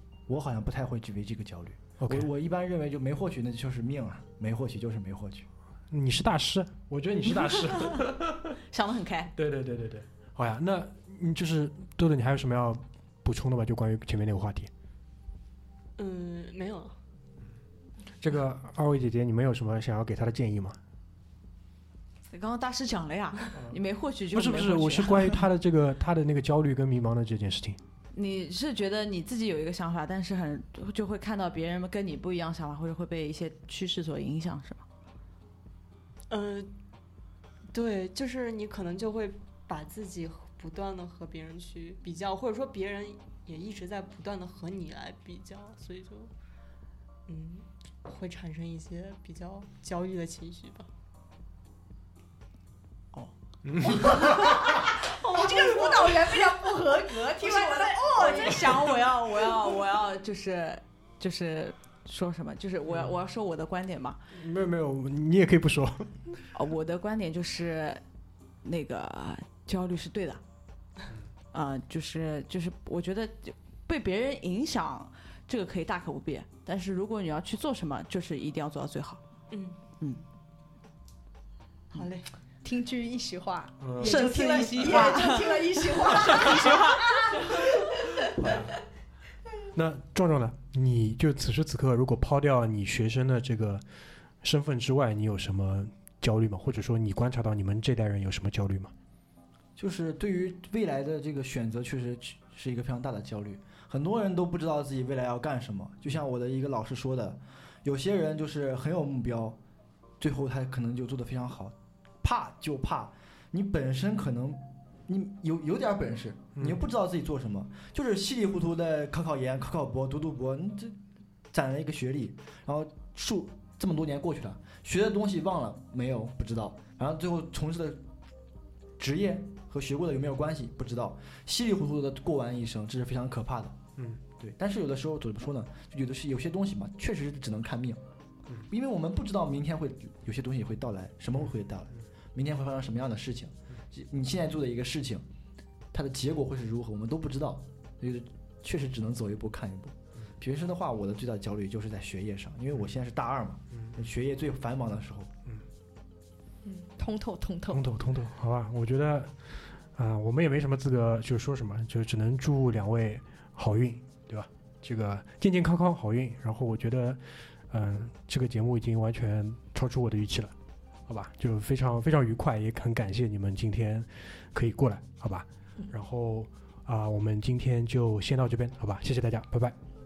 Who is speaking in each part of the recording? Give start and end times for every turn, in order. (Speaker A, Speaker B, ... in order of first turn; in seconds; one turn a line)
Speaker A: 0.3-5.5
Speaker B: 2.0-2.3
Speaker B: 5.9-8.6
Speaker C: 8.7-9.3
Speaker B: 9.4-14.7
Speaker D: 16.0-17.0
Speaker B: 18.2-20.8
Speaker C: 22.3-25.4
Speaker B: 24.3-27.8
Speaker C: 28.1-34.8
Speaker D: 36.3-36.7
Speaker D: 37.7-46.3
Speaker D: 47.3-50.9
Speaker B: 53.6-54.7
Speaker C: 53.9-64.2
Speaker E: 53.9-58.9
Speaker B: 62.9-63.1
Speaker B: 64.3-66.2
Speaker C: 66.5-68.0
Speaker C: 68.6-70.4
Speaker C: 71.5-79.2
Speaker D: 79.5-79.8
Speaker D: 81.9-82.3
Speaker E: 82.6-88.6
Speaker B: 83.8-84.3
Speaker C: 84.0-87.7
Speaker B: 88.3-88.8
Speaker B: 89.7-93.8
Speaker B: 94.4-98.9
Speaker A: 99.8-109.6
Speaker A: 110.2-121.0
Speaker A: 121.5-128.0
Speaker A: 129.0-133.8
Speaker A: 134.4-138.0
Speaker A: 138.7-145.2
Speaker A: 145.9-155.3
Speaker E: 156.6-157.9
Speaker B: 157.7-170.5
Speaker B: 171.1-179.8